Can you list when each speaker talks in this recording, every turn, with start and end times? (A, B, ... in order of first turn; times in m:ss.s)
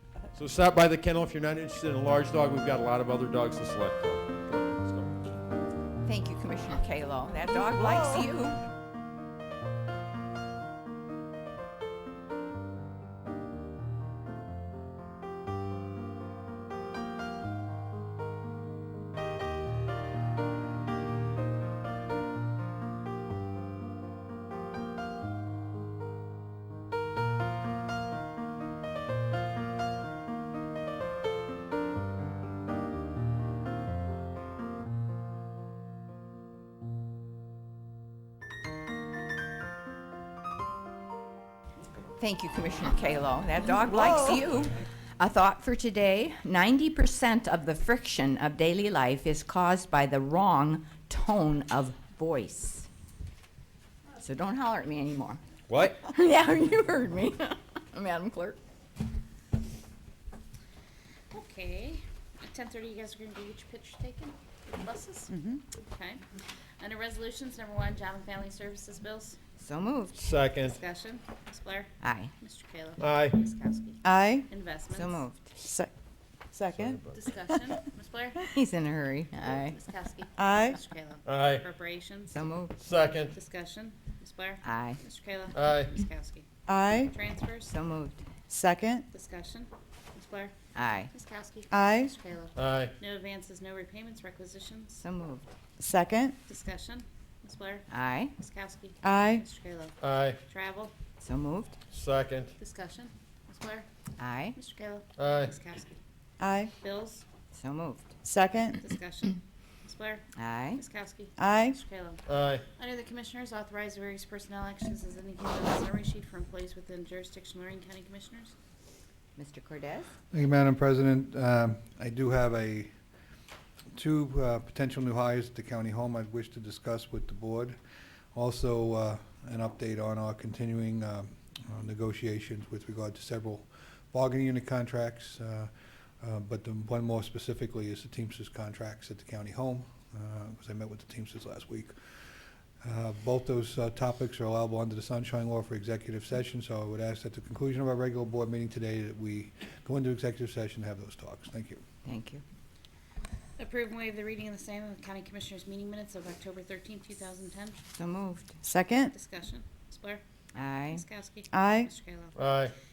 0:00.3-0:05.4 A
0:06.0-0:08.6 B
0:42.2-0:52.9 B
0:54.2-0:55.4 B
0:55.7-0:56.0 A
0:56.0-0:58.6 B
1:01.3-1:06.2 C
1:05.3-1:05.6 D
1:06.8-1:09.4 C
1:09.6-1:10.2 B
1:10.1-1:10.8 A
1:10.6-1:15.3 C
1:12.0-1:12.3 B
1:13.0-1:13.4 A
1:14.0-1:14.4 D
1:14.9-1:15.5 B
1:15.6-1:15.9 D
1:16.5-1:17.0 D
1:16.7-1:17.2 A
1:17.1-1:18.6 C
1:18.5-1:19.8 B
1:19.4-1:22.5 C
1:20.4-1:20.8 D
1:21.2-1:21.6 A
1:22.3-1:22.8 B
1:22.8-1:23.3 A
1:23.2-1:26.5 C
1:24.6-1:25.0 B
1:25.5-1:25.9 A
1:26.7-1:27.1 D
1:27.0-1:27.7 C
1:27.6-1:28.4 B
1:28.5-1:29.0 D
1:29.1-1:30.5 C
1:30.7-1:31.1 B
1:31.1-1:35.0 C
1:31.7-1:32.1 D
1:32.6-1:32.9 A
1:35.0-1:35.5 B
1:35.8-1:36.4 D
1:36.5-1:40.9 C
1:37.9-1:38.3 B
1:39.0-1:39.4 D
1:40.0-1:40.4 A
1:41.2-1:41.8 B
1:41.9-1:42.5 A
1:42.6-1:43.9 C
1:44.2-1:44.6 B
1:44.5-1:46.0 C
1:45.2-1:45.5 A
1:46.4-1:46.7 D
1:46.8-1:47.2 C
1:47.5-1:48.2 B
1:48.2-1:48.8 D
1:48.8-1:52.2 C
1:50.3-1:50.8 B
1:51.4-1:51.8 D
1:52.3-1:52.6 A
1:52.7-1:58.5 C
1:59.4-2:00.1 B
2:00.3-2:02.9 E
2:03.9-2:07.8 E
2:08.3-2:21.9 E
2:22.8-2:31.8 E
2:32.0-2:32.4 B
2:33.6-2:37.8 C
2:37.9-2:38.6 B
2:38.6-2:39.2 D
2:39.1-2:40.2 C
2:40.5-2:41.0 B
2:40.9-2:42.5 C
2:41.5-2:41.9 D
2:42.4-2:42.7 A